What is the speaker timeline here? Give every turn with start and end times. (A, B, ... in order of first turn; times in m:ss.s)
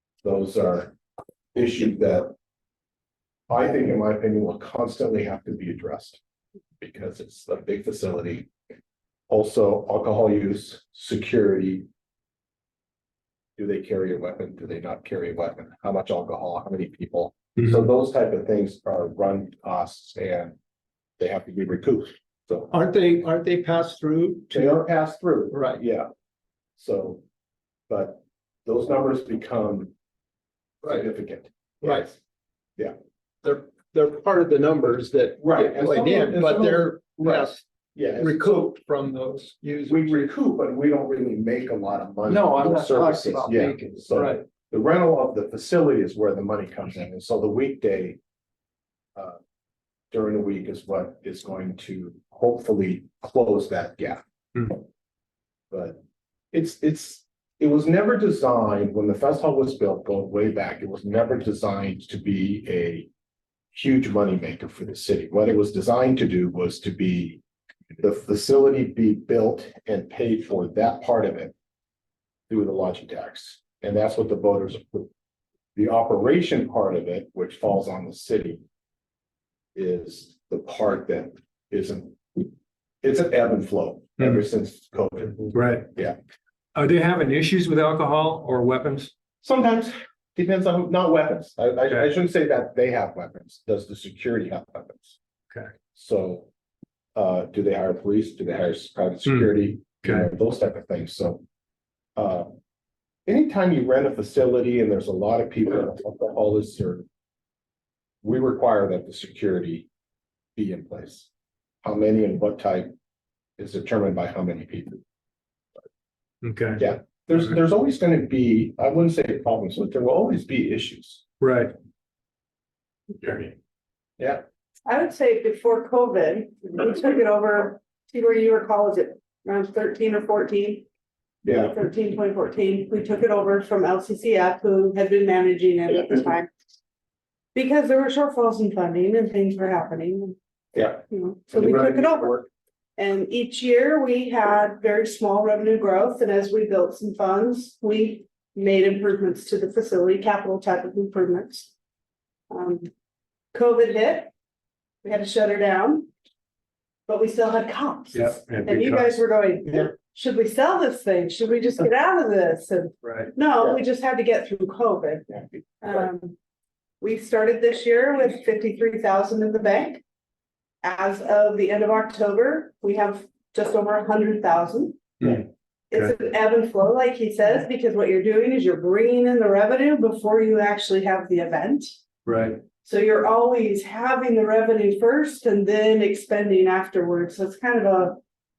0:00.2-0:01.0 A
0:01.5-0:02.3 A
0:03.5-0:06.2 A
0:06.8-0:08.5 A
0:09.3-0:11.9 A
0:13.6-0:20.6 A
0:21.2-0:22.7 A
0:22.7-0:24.8 B
0:24.5-0:26.1 A
0:25.5-0:25.8 B
0:26.8-0:27.2 A
0:27.9-0:29.9 A
0:30.8-0:31.1 B
0:30.8-0:32.2 A
0:31.8-0:32.1 B
0:33.4-0:37.6 B
0:35.4-0:38.7 A
0:38.2-0:40.2 B
0:39.9-0:48.2 A
0:42.3-0:44.4 B
0:50.1-0:54.8 A
0:55.7-0:56.0 A
0:56.5-1:03.1 A
1:03.7-1:07.4 A
1:08.0-1:11.5 A
1:12.5-1:15.1 A
1:15.8-1:18.6 A
1:19.8-1:22.5 A
1:23.0-1:26.2 A
1:25.5-1:25.9 C
1:26.8-1:29.1 C
1:29.4-1:35.2 A
1:35.9-1:36.5 A
1:37.2-1:41.4 A
1:39.3-1:40.2 C
1:42.2-1:42.6 A
1:43.3-1:47.0 A
1:48.2-1:49.9 A
1:50.6-1:51.3 A
1:51.8-1:52.9 A
1:53.6-1:55.0 A
1:56.4-1:56.8 C
1:56.8-2:01.2 A
2:01.4-2:01.7 C
2:03.2-2:03.5 A
2:04.9-2:10.8 D
2:11.4-2:11.8 A
2:11.5-2:16.5 D
2:17.6-2:20.4 D
2:20.7-2:22.5 A
2:21.1-2:22.4 D
2:23.0-2:31.7 D
2:32.5-2:32.9 D
2:33.5-2:34.3 D
2:35.0-2:36.1 D
2:37.1-2:46.4 D
2:38.1-2:39.2 C
2:43.0-2:43.3 C
2:47.0-2:50.0 D
2:50.8-2:55.2 D
2:55.2-2:56.1 C
2:55.9-3:02.0 D
3:02.3-3:02.6 C
3:02.8-3:08.2 D